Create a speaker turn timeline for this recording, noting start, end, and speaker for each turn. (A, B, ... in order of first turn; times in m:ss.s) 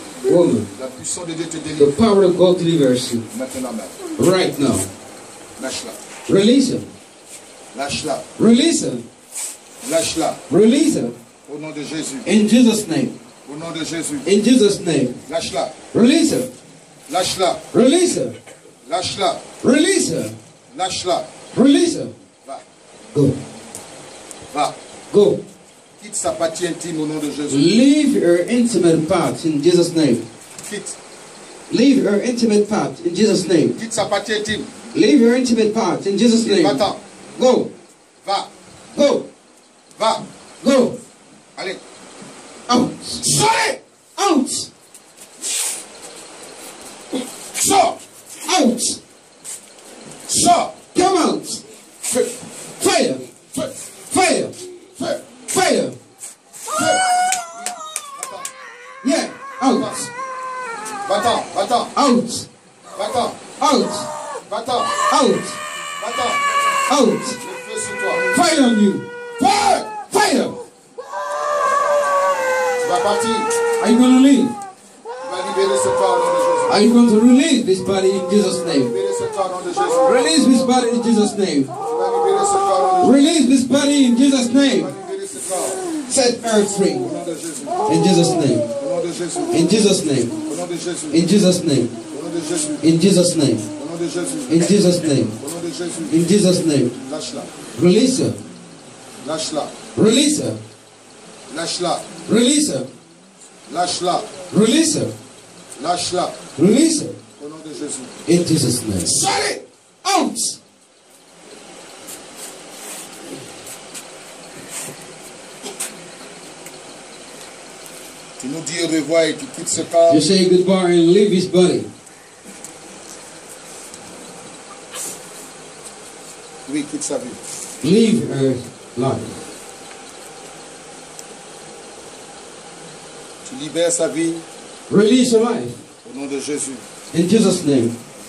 0:00.2-0:00.7 A
0:00.8-0:02.0 B
0:01.8-0:03.3 A
0:03.3-0:04.0 B
0:04.2-0:04.9 A
0:05.6-0:06.0 B
0:06.3-0:06.9 A
0:07.7-0:08.3 B
0:08.4-0:09.1 A
0:09.8-0:10.4 B
0:10.5-0:11.2 A
0:11.5-0:12.3 B
0:12.2-0:13.2 A
0:13.4-0:14.3 B
0:14.2-0:15.2 A
0:15.3-0:15.7 B
0:15.9-0:16.5 A
0:17.1-0:17.6 B
0:17.7-0:18.4 A
0:18.8-0:19.4 B
0:19.6-0:20.4 A
0:20.7-0:21.3 B
0:21.5-0:22.1 A
0:23.1-0:23.4 A
0:25.1-0:25.4 A
0:26.0-0:27.7 B
0:27.5-0:30.3 A
0:30.6-0:31.0 B
0:31.7-0:33.8 A
0:33.8-0:34.7 B
0:34.9-0:37.7 A
0:36.4-0:37.0 B
0:38.2-0:38.5 B
0:38.9-0:39.3 A
0:40.0-0:40.3 B
0:40.6-0:41.0 A
0:41.6-0:41.8 B
0:42.7-0:43.3 A
0:43.2-0:43.8 B
0:44.2-0:44.7 A
0:47.6-0:48.0 B
0:48.4-0:49.0 A
0:50.3-0:50.7 B
0:50.9-0:51.6 A
0:52.8-0:53.3 A
0:54.1-0:54.6 A
0:55.0-0:55.2 B
0:55.5-0:56.0 A
0:56.7-0:58.5 B
0:59.0-1:00.1 A
0:59.7-1:00.0 B
1:01.0-1:01.9 B
1:01.9-1:02.5 A
1:03.0-1:03.4 B
1:03.6-1:04.1 A
1:04.5-1:04.9 B
1:05.1-1:05.6 A
1:06.0-1:06.4 B
1:06.9-1:07.4 A
1:07.4-1:08.3 B
1:08.3-1:09.0 A
1:09.4-1:09.9 B
1:10.1-1:10.6 A
1:12.8-1:13.5 B
1:13.8-1:14.6 A
1:15.2-1:16.8 B
1:16.7-1:18.9 A
1:18.9-1:20.2 B
1:20.0-1:21.7 A
1:21.9-1:23.4 B
1:23.0-1:24.9 A
1:24.6-1:25.9 B
1:26.1-1:27.1 A
1:27.0-1:27.8 B
1:27.9-1:28.7 A
1:28.7-1:29.7 B
1:29.5-1:30.4 A
1:30.4-1:31.2 B
1:31.1-1:32.0 A
1:32.1-1:32.8 B
1:32.8-1:33.7 A
1:33.8-1:34.6 B
1:34.5-1:35.4 A
1:35.4-1:36.2 B
1:36.1-1:37.0 A
1:37.1-1:37.5 B
1:37.8-1:38.4 A
1:39.2-1:39.8 B
1:39.9-1:40.6 A
1:41.5-1:42.1 B
1:42.2-1:42.9 A
1:43.7-1:44.3 B
1:44.5-1:45.1 A
1:45.8-1:46.4 B
1:46.6-1:47.2 A
1:47.4-1:48.1 B
1:48.3-1:50.6 A
1:58.4-2:00.3 B
2:00.1-2:01.9 A
2:06.7-2:07.4 B
2:07.8-2:09.4 A
2:13.5-2:14.5 B
2:14.9-2:15.8 A
2:16.0-2:16.8 B
2:17.1-2:18.0 A